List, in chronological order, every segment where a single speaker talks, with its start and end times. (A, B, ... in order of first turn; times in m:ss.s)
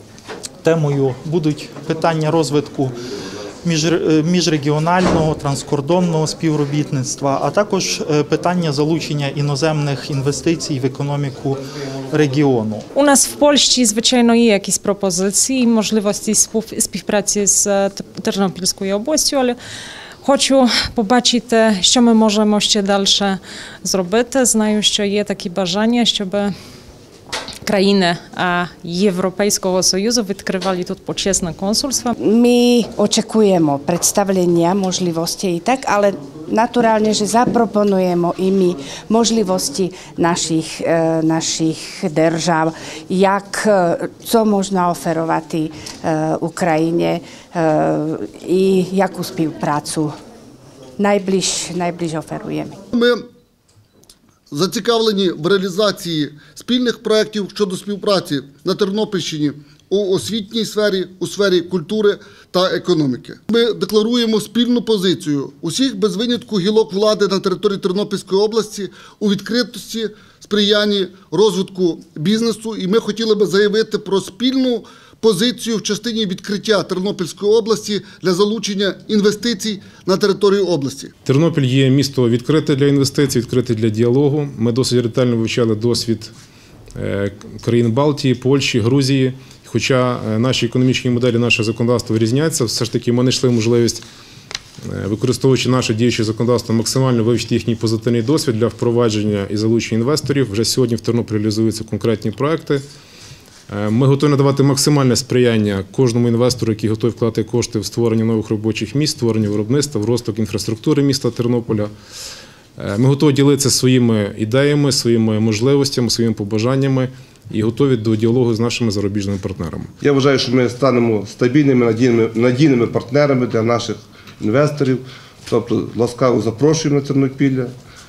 0:00.6-0:02.9 A
0:03.6-0:12.9 A
0:12.9-0:19.6 B
0:20.2-0:26.5 B
0:27.6-0:32.1 B
0:32.2-0:50.1 C
0:51.0-0:52.8 C
0:52.9-0:53.2 D
0:54.5-1:21.1 D
1:21.2-1:26.3 E
1:26.9-1:34.0 E
1:34.8-1:42.8 E
1:43.7-1:51.9 E
1:52.8-1:59.9 E
2:00.0-2:07.7 F